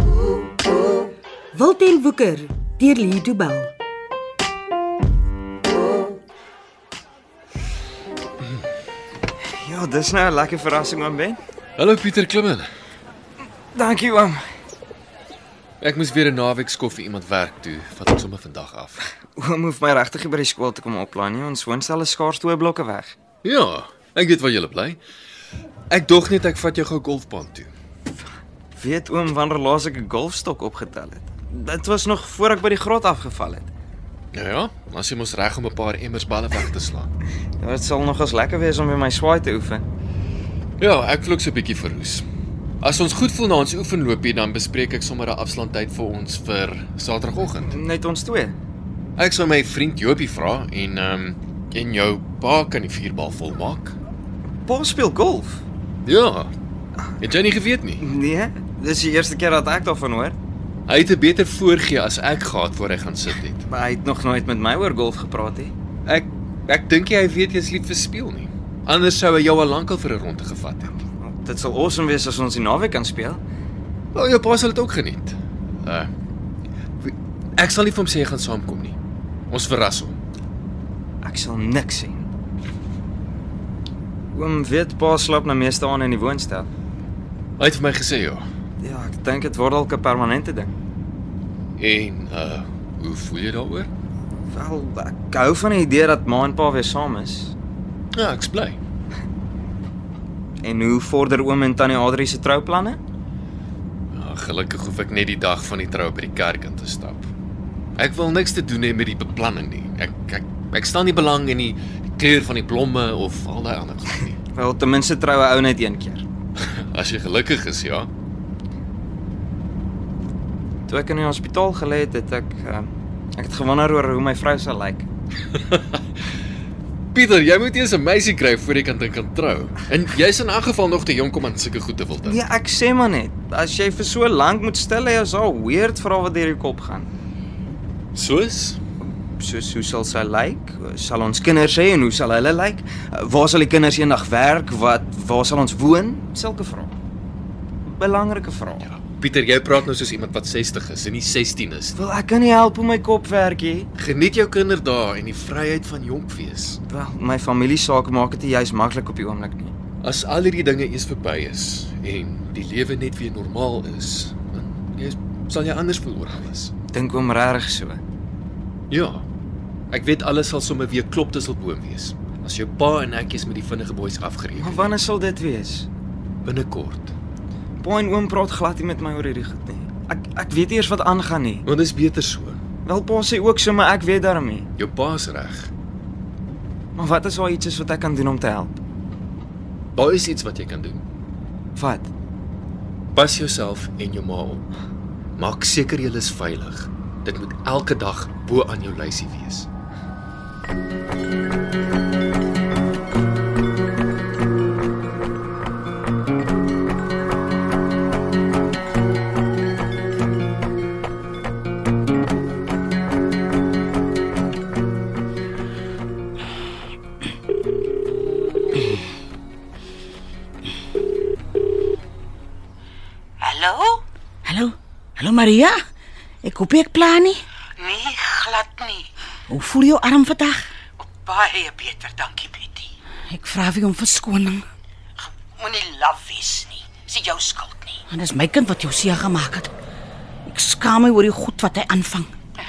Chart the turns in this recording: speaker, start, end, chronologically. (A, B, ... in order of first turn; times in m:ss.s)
0:01.5-0:03.7 A
0:09.6-0:11.4 B
0:11.8-0:12.7 C
0:13.7-0:14.4 B
0:15.8-0:19.0 C
0:19.4-0:23.1 B
0:23.4-0:25.0 C
0:25.9-0:27.7 C
0:28.8-0:33.7 B
0:34.3-0:37.1 C
0:37.6-0:39.8 B
0:40.8-0:42.2 C
0:42.8-0:47.7 C
0:47.6-0:48.5 B
0:49.2-0:54.0 C
0:54.6-0:55.6 B
0:56.0-0:56.5 C
0:57.2-0:58.0 C
0:58.0-1:00.4 B
1:00.9-1:03.6 C
1:03.7-1:05.7 B
1:06.0-1:10.9 C
1:11.2-1:13.4 B
1:14.1-1:16.1 C
1:17.0-1:19.0 C
1:19.5-1:20.2 C
1:21.2-1:22.3 B
1:24.3-1:26.7 B
1:27.6-1:28.4 C
1:28.8-1:30.7 B
1:31.8-1:33.9 C
1:34.5-1:37.5 B
1:38.1-1:38.8 C
1:40.6-1:43.0 B
1:44.1-1:47.3 C
1:48.0-1:54.4 C
1:54.5-1:56.2 B
1:56.7-1:58.1 C
2:00.9-2:05.1 B
2:05.5-2:06.0 C
2:07.1-2:12.4 C
2:12.2-2:17.1 B
2:18.1-2:18.8 C
2:19.4-2:26.9 B
2:27.8-2:28.9 B
2:28.8-2:32.0 C
2:31.9-2:33.9 B
2:33.9-2:36.8 C
2:36.9-2:39.7 B
2:40.0-2:46.7 C
2:46.9-2:48.0 B
2:48.9-2:49.2 C
2:49.9-2:54.9 C
2:54.6-2:55.9 B
2:56.4-2:57.1 C
2:57.8-3:01.6 B
3:01.6-3:02.6 C
3:02.8-3:04.7 B
3:04.8-3:05.7 C
3:06.9-3:08.8 B
3:09.9-3:11.0 C
3:11.7-3:12.1 B
3:13.1-3:14.7 C
3:15.4-3:19.7 C
3:43.4-3:44.0 D
3:44.4-3:45.8 E
3:46.4-3:47.4 E
3:47.8-3:49.1 D
3:49.5-3:50.7 E
3:51.0-3:52.9 D
3:53.3-3:54.6 E
3:55.6-3:58.0 D
3:58.1-3:59.7 E
4:00.4-4:02.3 E